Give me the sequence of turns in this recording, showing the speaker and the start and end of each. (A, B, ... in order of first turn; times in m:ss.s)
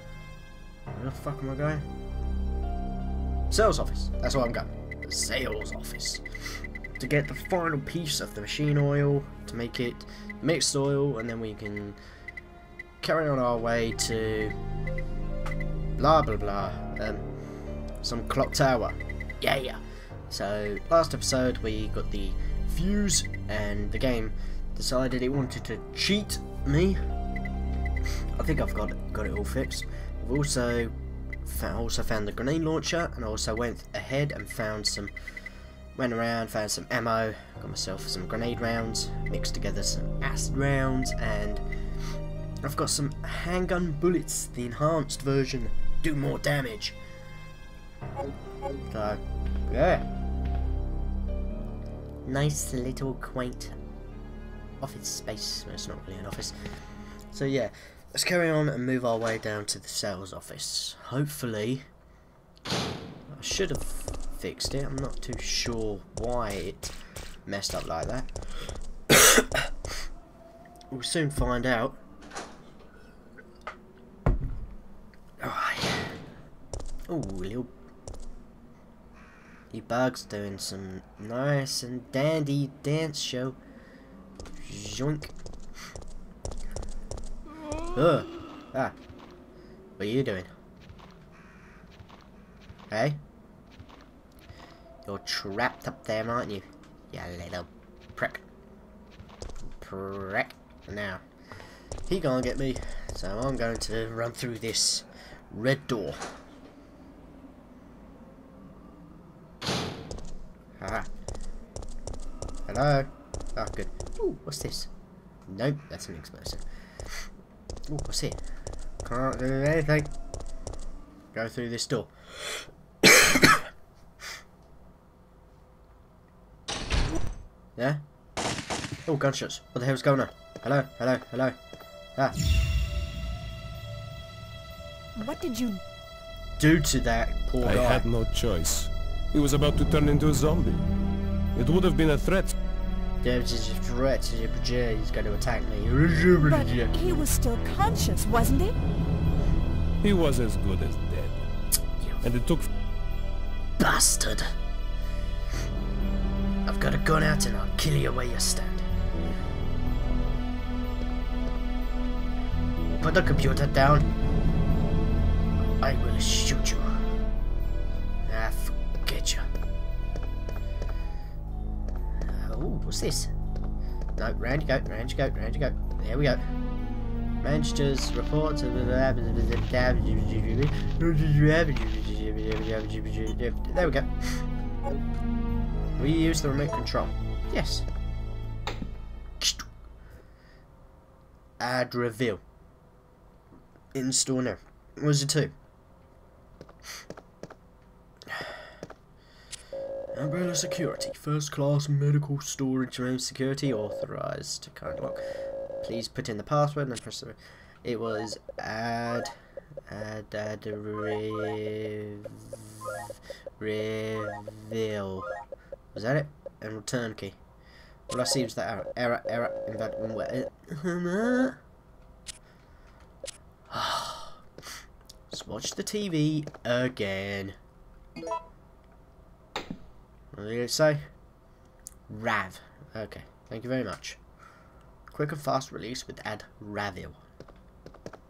0:00.9-0:01.9 A
0:03.5-0:06.2 A
0:07.0-0:12.0 A
0:13.0-0:14.5 A
0:16.0-0:17.2 A
0:18.0-0:27.0 A
0:28.4-0:30.9 A
0:31.4-0:35.1 A
0:36.0-0:41.6 A
0:42.6-0:47.0 A
0:48.9-0:50.1 A
0:52.2-0:53.8 A
0:54.8-0:56.6 A
0:57.3-1:01.8 A
1:03.3-1:06.9 A
1:07.4-1:08.3 A
1:09.1-1:09.7 A
1:10.9-1:12.0 A
1:15.4-1:16.1 A
1:17.1-1:17.7 A
1:19.7-1:23.6 A
1:24.6-1:25.3 A
1:27.9-1:29.0 A
1:30.0-1:30.5 A
1:32.9-1:33.2 A
1:35.0-1:38.4 A
1:39.8-1:41.2 A
1:42.1-1:46.2 A
1:50.8-1:51.1 A
1:52.7-1:54.9 A
1:55.5-1:56.6 A
1:57.9-1:58.4 A
1:59.0-2:00.1 A
2:01.3-2:03.6 A
2:09.1-2:11.5 A
2:15.2-2:15.8 B
2:16.6-2:18.0 A
2:17.6-2:20.8 C
2:21.5-2:22.6 C
2:23.2-2:27.2 A
2:26.4-2:28.7 B
2:30.0-2:31.5 C
2:32.0-2:32.2 A
2:32.2-2:32.7 C
2:33.8-2:34.4 A
2:36.6-2:38.8 A
2:42.9-2:44.1 A
2:45.8-2:46.9 A
2:48.3-2:49.4 A
2:52.4-2:53.3 A
2:54.2-2:56.4 A
2:57.4-3:04.4 A
3:06.0-3:07.9 A
3:09.4-3:09.6 A
3:11.6-3:12.4 A
3:13.9-3:15.5 A
3:18.3-3:18.6 A
3:20.1-3:25.2 A
3:25.8-3:29.3 A
3:29.9-3:33.0 A
3:33.6-3:35.3 A
3:35.9-3:37.4 A
3:38.1-3:41.6 A
3:43.7-3:44.4 A
3:45.3-3:47.6 A
3:50.3-3:51.0 A
3:52.1-3:54.2 A
3:55.1-3:57.2 A